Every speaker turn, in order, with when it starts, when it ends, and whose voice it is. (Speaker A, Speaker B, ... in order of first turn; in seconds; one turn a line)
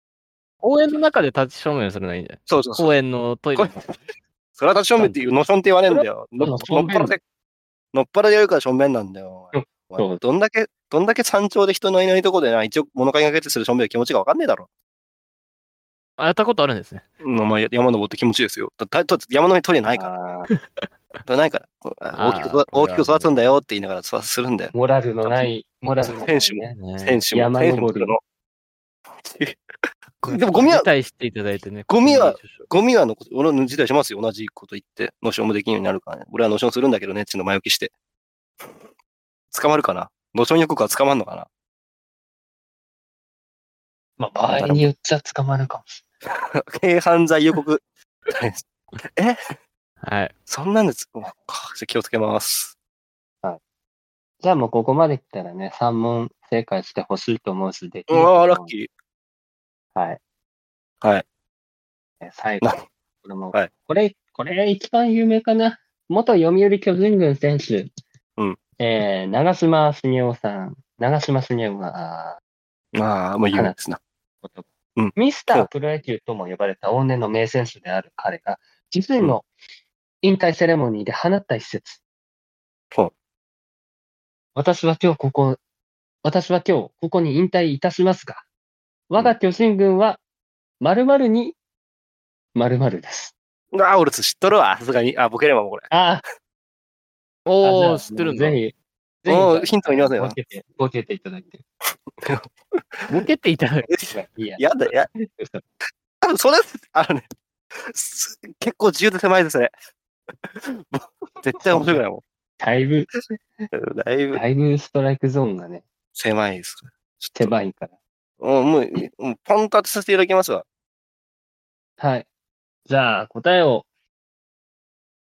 Speaker A: 0.6-3.9
Speaker B: 2.5-2.9
Speaker B: 4.6-7.2
Speaker A: 6.4-6.7
Speaker C: 6.4-7.2
Speaker B: 7.9-14.7
Speaker C: 9.5-10.2
Speaker A: 16.2-17.0
Speaker B: 17.2-20.1
Speaker C: 19.9-20.5
Speaker B: 21.2-24.7
Speaker A: 22.1-23.3
Speaker C: 24.7-26.8
Speaker B: 26.1-28.2
Speaker A: 26.7-27.2
Speaker C: 27.3-28.1
Speaker B: 29.2-29.6
Speaker B: 30.2-30.9
Speaker A: 30.2-32.7
Speaker B: 31.9-37.9
Speaker B: 39.5-41.5
Speaker C: 44.2-46.0
Speaker B: 44.5-44.9
Speaker B: 46.6-49.4
Speaker A: 50.0-50.3
Speaker B: 50.5-52.7
Speaker C: 54.4-58.7
Speaker B: 58.1-58.9
Speaker C: 59.9-60.2
Speaker C: 62.2-67.9
Speaker C: 68.8-72.4
Speaker B: 72.9-74.0
Speaker C: 74.4-79.5
Speaker B: 75.0-75.7
Speaker C: 80.2-82.0
Speaker C: 84.6-85.6
Speaker C: 86.2-88.4
Speaker C: 89.1-90.2
Speaker C: 90.8-91.6
Speaker C: 92.5-93.3
Speaker B: 93.7-95.9
Speaker C: 95.9-96.2
Speaker A: 97.5-98.6
Speaker C: 97.6-101.6
Speaker B: 99.3-100.4
Speaker B: 102.2-103.1
Speaker A: 103.1-103.9
Speaker B: 103.9-105.1
Speaker C: 104.1-104.6
Speaker C: 105.1-105.6
Speaker B: 106.2-109.7
Speaker B: 110.4-112.2
Speaker C: 111.7-112.0
Speaker C: 112.6-113.7
Speaker B: 113.7-114.4
Speaker C: 114.3-115.8
Speaker B: 116.1-117.6
Speaker C: 117.4-117.9
Speaker B: 118.4-120.6
Speaker C: 122.0-122.2
Speaker C: 122.9-123.9